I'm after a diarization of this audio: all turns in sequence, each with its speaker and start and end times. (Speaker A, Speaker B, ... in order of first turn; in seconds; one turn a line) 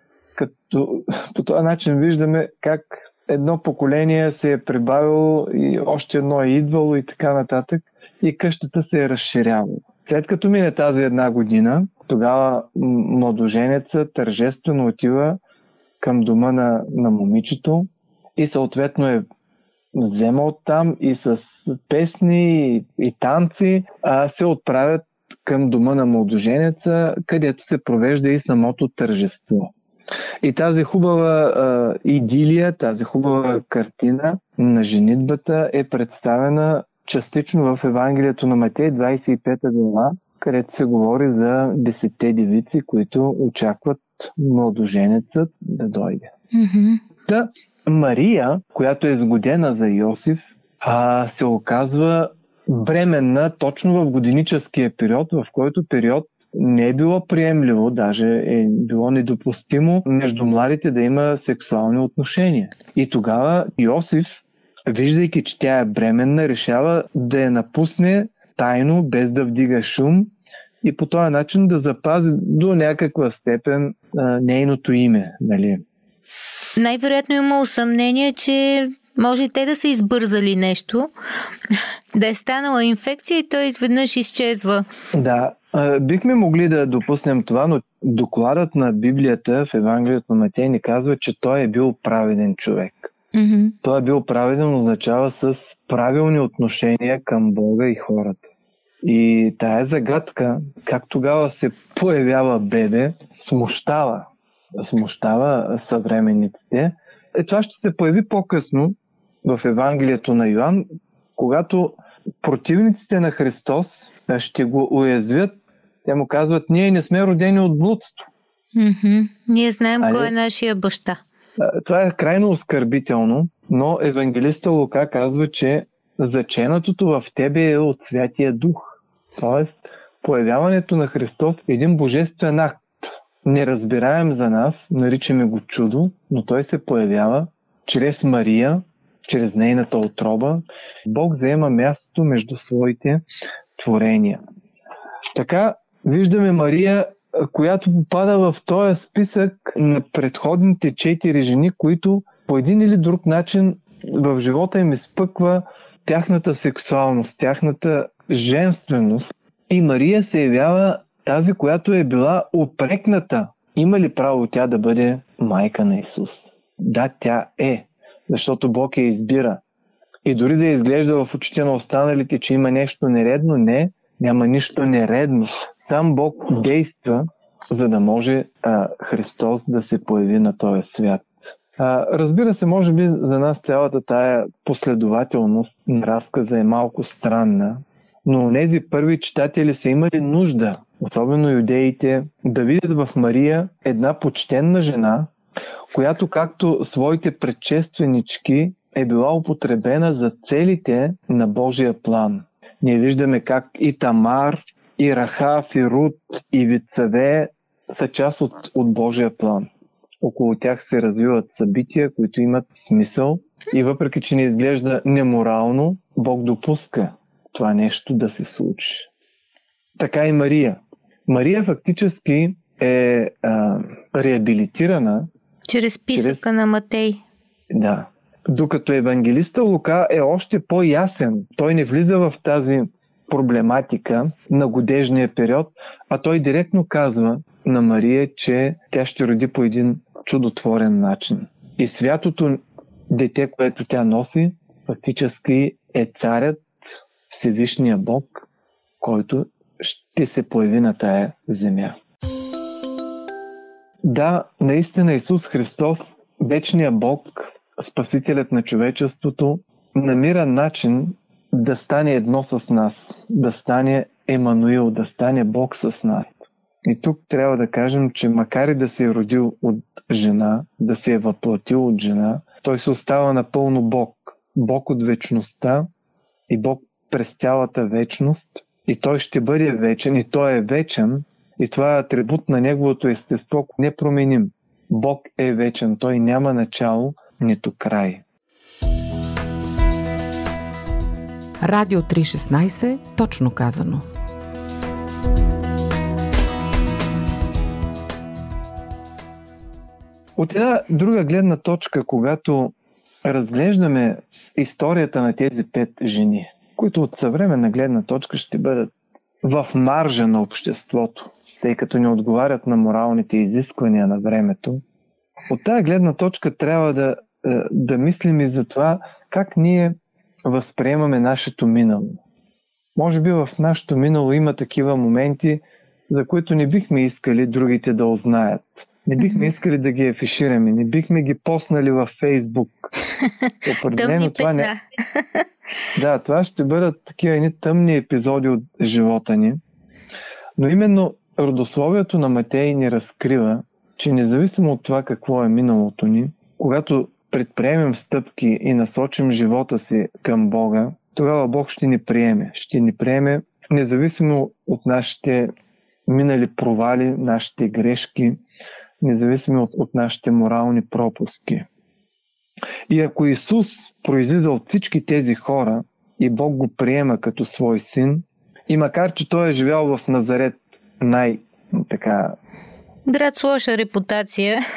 Speaker A: 0.3-15.4
Speaker A: 16.0-19.2
Speaker A: 19.9-29.7
Speaker A: 30.4-46.3
Speaker B: 46.5-47.0
Speaker A: 47.2-75.8
Speaker B: 76.8-81.1
Speaker B: 82.1-84.8
Speaker A: 85.1-93.1
Speaker B: 93.3-93.7
Speaker A: 93.8-98.4
Speaker A: 99.0-110.8
Speaker A: 111.4-118.3
Speaker B: 118.8-121.2
Speaker A: 120.0-120.3
Speaker A: 121.6-143.2
Speaker A: 143.8-144.4
Speaker A: 145.2-169.6
Speaker A: 170.2-195.3
Speaker A: 195.9-209.7
Speaker A: 210.2-219.1
Speaker A: 220.0-225.3
Speaker B: 225.7-227.2
Speaker A: 226.1-226.4
Speaker A: 227.7-246.7
Speaker A: 247.3-248.5
Speaker A: 249.0-252.0
Speaker A: 254.0-275.9
Speaker A: 276.5-288.2
Speaker C: 291.6-294.1
Speaker A: 300.4-314.8
Speaker A: 315.5-322.2
Speaker A: 322.9-332.9
Speaker A: 333.6-334.7
Speaker B: 333.9-335.4
Speaker A: 335.9-339.6
Speaker A: 340.6-355.5
Speaker A: 356.1-358.4
Speaker A: 359.0-361.7
Speaker A: 362.9-372.4
Speaker B: 373.1-374.6